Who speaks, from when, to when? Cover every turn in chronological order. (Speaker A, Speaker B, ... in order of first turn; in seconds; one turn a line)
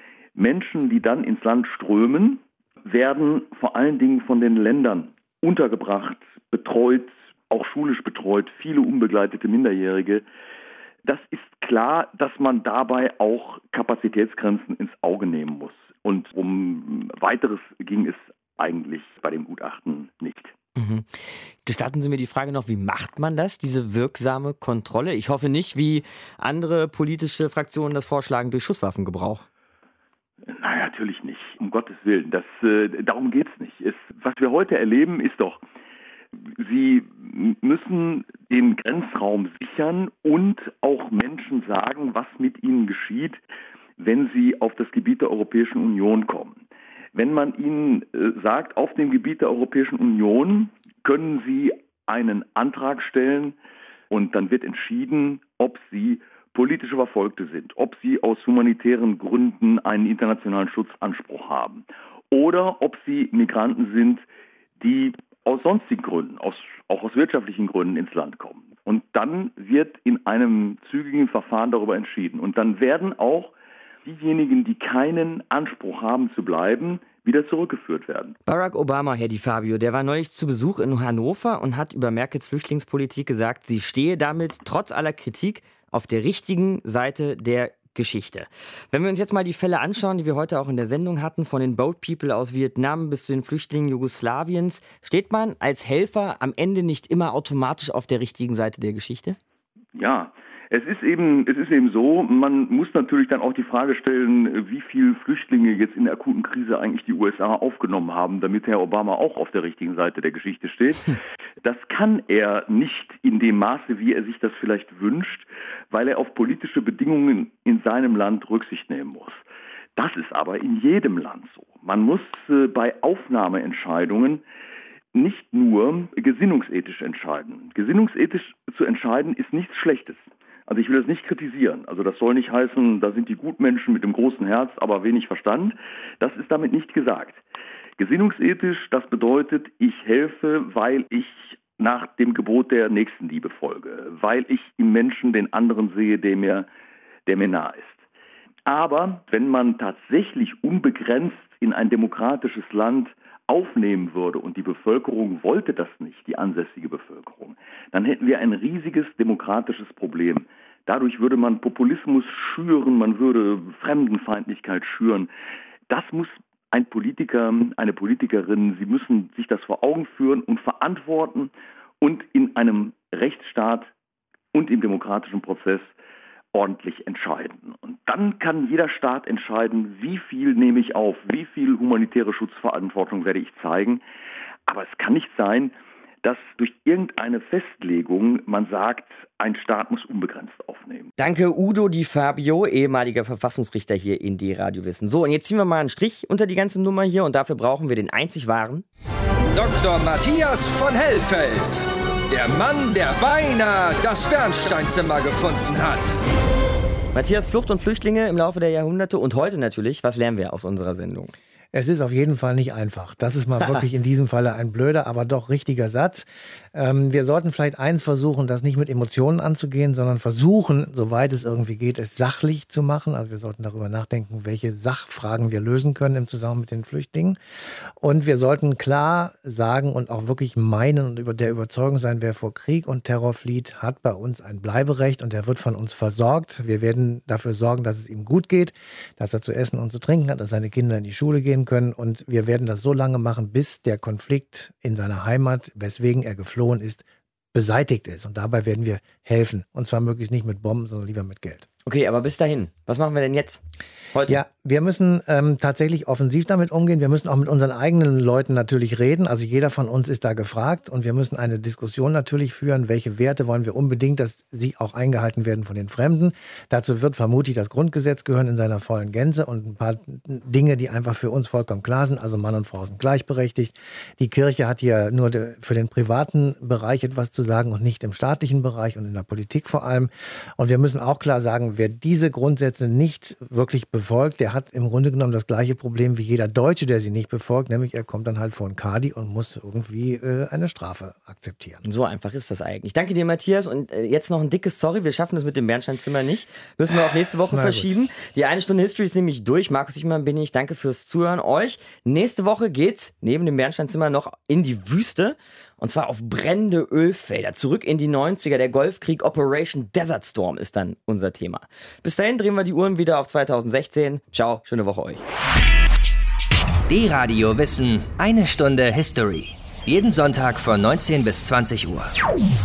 Speaker A: 0.4-10.2
Speaker A: 11.1-20.5
Speaker B: 20.8-21.1
Speaker B: 21.6-29.5
Speaker A: 30.5-35.6
Speaker A: 36.6-43.4
Speaker A: 44.0-46.6
Speaker A: 47.1-53.6
Speaker A: 54.1-64.2
Speaker A: 64.8-73.5
Speaker A: 74.0-78.4
Speaker B: 78.5-99.4
Speaker A: 100.0-119.4
Speaker A: 120.0-124.4
Speaker A: 125.2-137.4
Speaker A: 138.0-146.7
Speaker A: 147.3-148.0
Speaker A: 148.7-165.3
Speaker A: 165.9-171.5
Speaker A: 172.0-173.9
Speaker A: 174.5-175.9
Speaker A: 176.5-184.0
Speaker A: 184.7-191.1
Speaker B: 191.2-198.8
Speaker C: 199.5-206.1
Speaker B: 207.1-211.3
Speaker D: 211.7-227.4
Speaker D: 228.0-251.7
Speaker B: 251.8-254.4
Speaker D: 254.3-291.8
Speaker B: 291.9-315.3
Speaker D: 297.5-298.0
Speaker E: 316.9-322.1